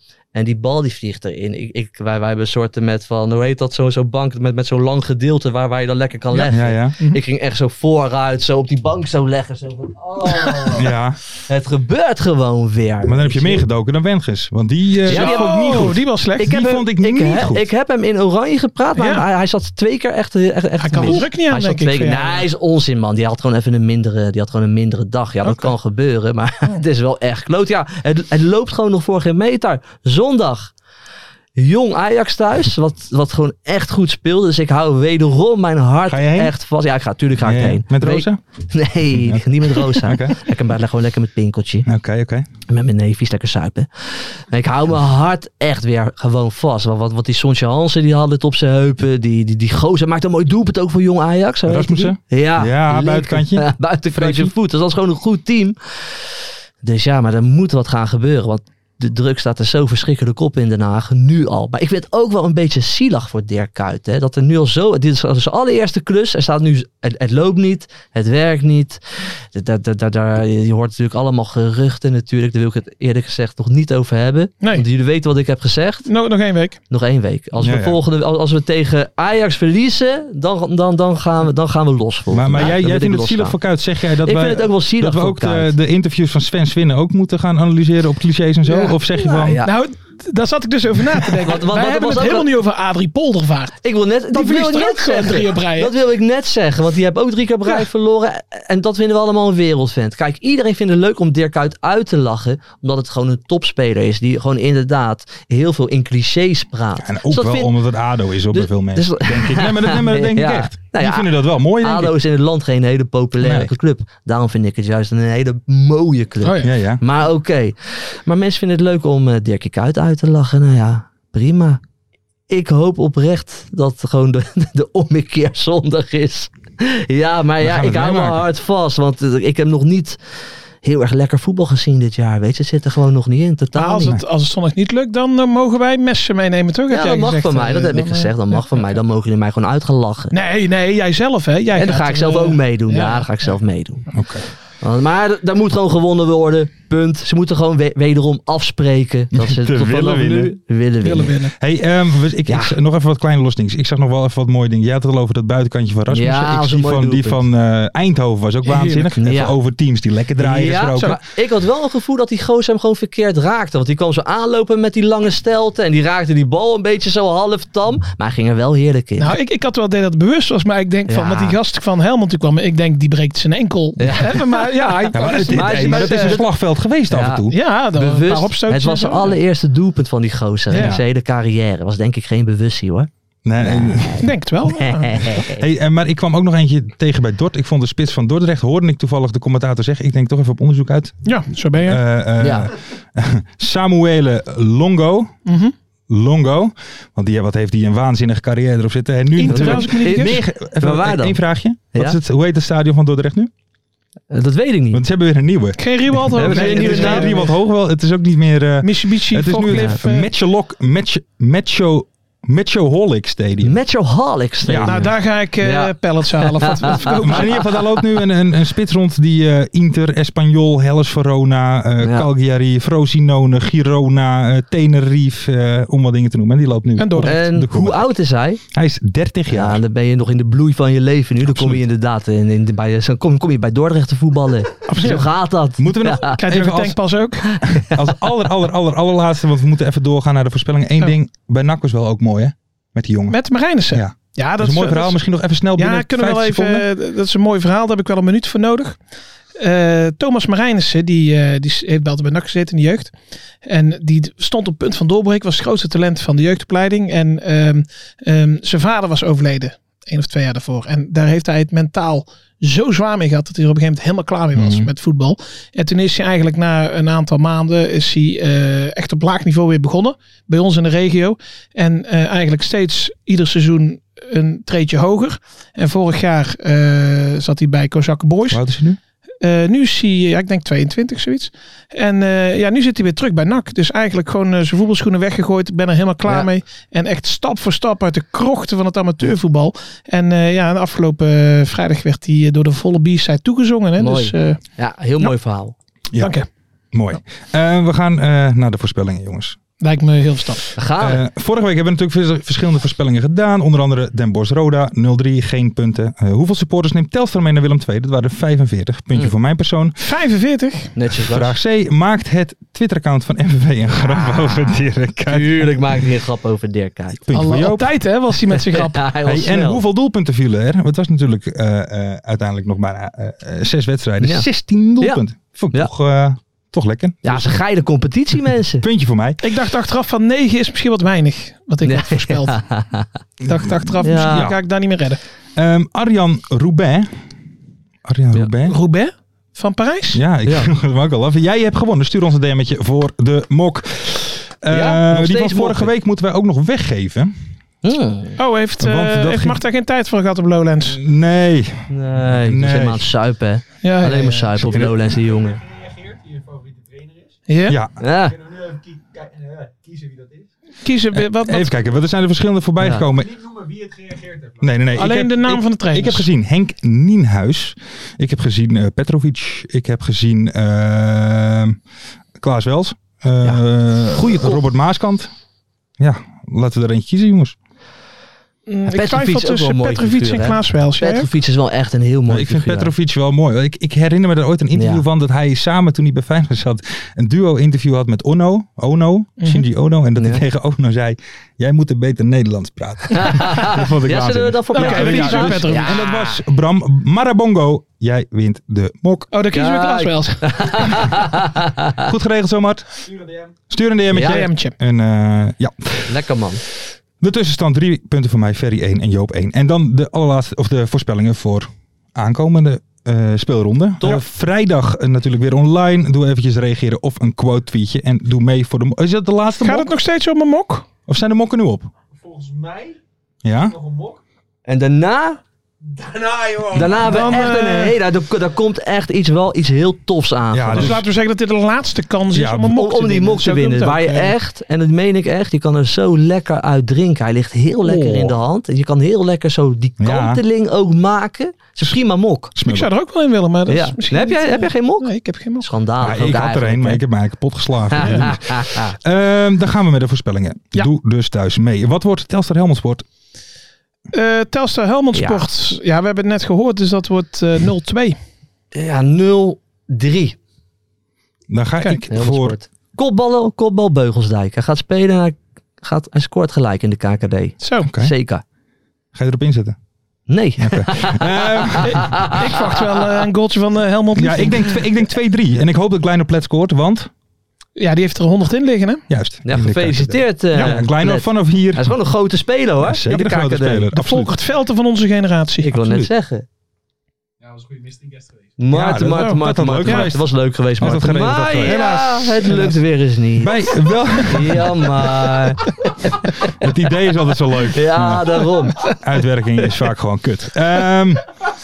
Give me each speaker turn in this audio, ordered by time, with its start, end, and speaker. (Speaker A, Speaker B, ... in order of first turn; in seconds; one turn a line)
Speaker A: 0.3-10.9
Speaker B: 6.5-6.9
Speaker B: 10.8-11.2
Speaker A: 11.5-13.6
Speaker B: 13.0-17.6
Speaker C: 15.1-16.6
Speaker A: 15.1-30.7
Speaker C: 18.9-19.3
Speaker C: 20.8-22.5
Speaker A: 31.6-41.9
Speaker B: 36.0-36.5
Speaker B: 37.4-38.4
Speaker B: 39.1-40.4
Speaker B: 41.9-42.5
Speaker A: 42.7-56.1
Speaker B: 51.6-54.5
Speaker A: 56.8-69.0
Speaker A: 69.5-76.1
Speaker C: 76.0-76.8
Speaker A: 76.9-83.6
Speaker B: 77.6-78.0
Speaker B: 82.3-89.6
Speaker A: 84.2-85.7
Speaker C: 88.7-89.0
Speaker A: 89.1-89.7
Speaker C: 89.6-93.8
Speaker A: 91.5-92.5
Speaker A: 93.8-107.7
Speaker C: 94.3-95.9
Speaker B: 107.0-112.1
Speaker A: 108.5-121.8
Speaker B: 113.4-113.7
Speaker C: 116.4-116.7
Speaker B: 116.6-117.0
Speaker A: 122.5-130.2
Speaker B: 127.6-128.4
Speaker A: 130.8-134.2
Speaker C: 133.7-139.0
Speaker A: 136.9-140.3
Speaker C: 140.3-143.6
Speaker A: 141.7-144.1
Speaker B: 144.1-144.4
Speaker A: 144.8-151.4
Speaker B: 149.3-150.5
Speaker C: 151.0-151.5
Speaker B: 151.6-161.2
Speaker A: 152.5-152.8
Speaker A: 156.1-157.4
Speaker C: 158.6-159.2
Speaker A: 159.2-159.6
Speaker A: 160.4-169.3
Speaker C: 169.2-176.4
Speaker A: 171.1-171.6
Speaker A: 174.0-176.5
Speaker B: 175.1-177.5
Speaker A: 177.1-185.6
Speaker C: 177.5-179.4
Speaker C: 180.7-181.0
Speaker B: 180.7-181.0
Speaker B: 183.4-184.3
Speaker C: 184.2-185.3
Speaker B: 185.5-191.2
Speaker C: 191.2-192.0
Speaker B: 191.8-195.3
Speaker A: 192.4-192.7
Speaker C: 195.4-195.7
Speaker B: 196.1-203.5
Speaker C: 199.4-200.4
Speaker A: 199.5-201.4
Speaker A: 204.3-205.0
Speaker B: 204.9-213.8
Speaker C: 205.8-207.5
Speaker A: 206.3-207.5
Speaker C: 208.8-210.3
Speaker A: 213.6-217.4
Speaker B: 214.6-215.1
Speaker C: 214.8-217.7
Speaker B: 217.2-228.1
Speaker A: 222.0-222.3
Speaker C: 227.0-227.4
Speaker A: 227.2-228.6
Speaker B: 228.7-229.8
Speaker A: 229.5-236.4
Speaker B: 231.4-231.8
Speaker C: 234.9-235.3
Speaker B: 235.8-237.0
Speaker C: 236.3-237.5
Speaker A: 237.5-238.0
Speaker B: 237.8-243.4
Speaker C: 243.3-245.2
Speaker B: 243.9-246.8
Speaker C: 245.7-249.0
Speaker C: 249.6-278.6
Speaker B: 264.5-264.9
Speaker B: 278.5-279.0
Speaker C: 279.4-294.6
Speaker A: 294.0-295.7
Speaker C: 296.2-296.5
Speaker B: 296.9-299.6
Speaker C: 299.8-300.7
Speaker A: 300.8-301.2
Speaker B: 301.0-309.9
Speaker C: 310.0-310.9
Speaker A: 310.9-311.5
Speaker B: 311.2-315.8
Speaker A: 314.0-317.2
Speaker B: 317.1-317.9
Speaker C: 317.3-319.1
Speaker A: 318.5-319.8
Speaker B: 319.2-327.6
Speaker A: 324.2-324.4
Speaker A: 325.0-325.9
Speaker A: 327.2-328.8
Speaker B: 328.8-329.4
Speaker C: 329.4-332.6
Speaker A: 331.8-333.1
Speaker B: 333.4-334.6
Speaker C: 333.5-335.2
Speaker A: 334.0-334.5
Speaker B: 335.6-337.1
Speaker B: 338.0-338.8
Speaker C: 338.6-340.2
Speaker B: 340.1-347.3
Speaker A: 340.4-340.7
Speaker A: 344.7-345.9
Speaker A: 347.8-348.4
Speaker C: 348.4-351.0
Speaker B: 348.8-349.6
Speaker B: 350.8-353.1
Speaker A: 351.9-355.6
Speaker C: 353.8-354.9
Speaker B: 354.7-355.0
Speaker C: 357.5-357.8
Speaker B: 357.7-357.9
Speaker A: 358.0-358.5
Speaker C: 360.8-361.7
Speaker B: 361.1-363.6
Speaker A: 362.8-363.1
Speaker B: 364.6-371.8
Speaker C: 364.9-366.3
Speaker B: 372.4-375.3
Speaker A: 373.4-374.6
Speaker B: 376.0-377.6
Speaker C: 378.7-381.3
Speaker A: 378.9-382.9
Speaker B: 382.3-399.3
Speaker A: 384.7-385.0
Speaker A: 390.2-390.4
Speaker A: 393.1-396.4
Speaker C: 394.7-396.0
Speaker C: 399.3-401.2
Speaker A: 399.5-402.1
Speaker B: 402.0-403.0
Speaker B: 403.7-406.2
Speaker A: 404.1-404.5
Speaker C: 404.2-404.7
Speaker A: 406.1-406.6
Speaker B: 407.2-419.9
Speaker C: 419.6-420.9
Speaker B: 421.1-421.9
Speaker B: 423.4-423.9
Speaker A: 424.6-425.4
Speaker A: 426.6-431.0
Speaker C: 427.0-428.0
Speaker B: 430.5-431.0
Speaker C: 430.7-434.4
Speaker B: 432.3-432.7
Speaker A: 432.7-442.5
Speaker C: 437.9-438.2
Speaker B: 440.0-440.4
Speaker B: 442.5-442.9
Speaker C: 442.6-445.7
Speaker A: 443.7-447.0
Speaker B: 446.0-453.0
Speaker A: 447.9-448.9
Speaker C: 448.0-448.3
Speaker C: 454.1-458.2
Speaker A: 455.1-455.5
Speaker A: 458.7-460.4
Speaker B: 461.5-462.6
Speaker A: 462.1-468.4
Speaker C: 467.6-467.9
Speaker B: 469.1-469.8
Speaker A: 470.3-472.7
Speaker B: 470.6-472.2
Speaker C: 471.8-474.9
Speaker B: 474.1-477.1
Speaker C: 477.8-479.0
Speaker B: 479.1-481.9
Speaker A: 479.4-483.9
Speaker C: 480.5-480.8
Speaker B: 482.8-484.3
Speaker C: 483.9-485.8
Speaker A: 485.6-486.4
Speaker B: 485.7-486.1
Speaker A: 488.6-493.6
Speaker B: 488.7-490.3
Speaker C: 489.0-490.1
Speaker B: 490.8-491.9
Speaker C: 491.6-492.8
Speaker B: 493.4-494.8
Speaker A: 494.2-496.5
Speaker B: 496.6-501.3
Speaker A: 497.7-499.8